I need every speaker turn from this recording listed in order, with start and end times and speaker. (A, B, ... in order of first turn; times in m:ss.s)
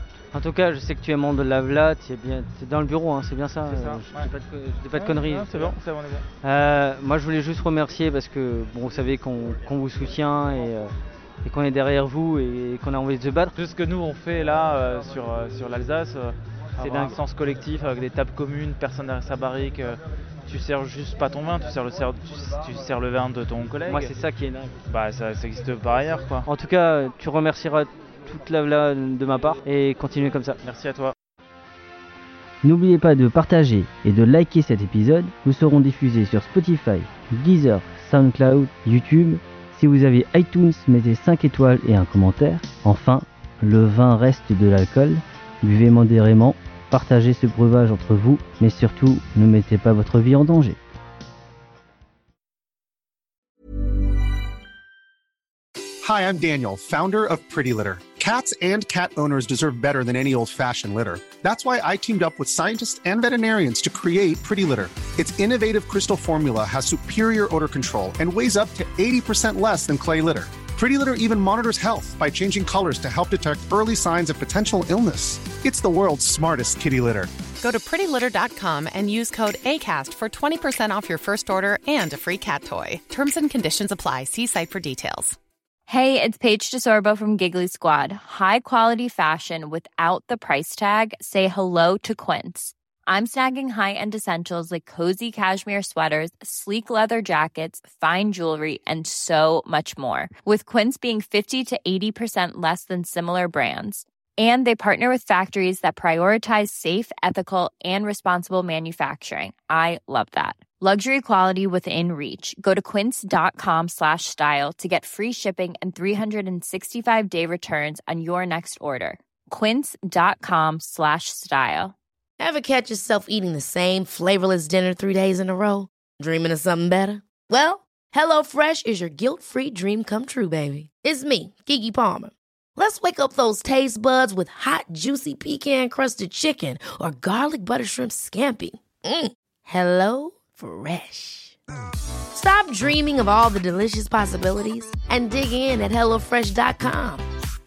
0:00.3-0:05.8 A
0:03.7-0:04.3 B
0:04.9-0:06.2 B
0:06.4-0:10.9 A
0:11.4-0:13.5 A
0:13.6-0:24.1 B
0:16.8-0:17.2 A
0:23.8-0:24.8 A
0:24.9-0:26.4 B
0:26.5-0:30.6 A
0:30.6-0:31.1 B
0:32.6-0:50.8 C
0:56.0-1:17.2 D
1:17.6-1:25.4 E
1:25.9-2:01.9 F
2:02.4-2:05.8 G
2:06.3-2:12.2 G
2:12.8-2:18.7 G
2:19.8-2:21.3 G
2:22.5-2:24.7 G
2:25.3-2:27.0 G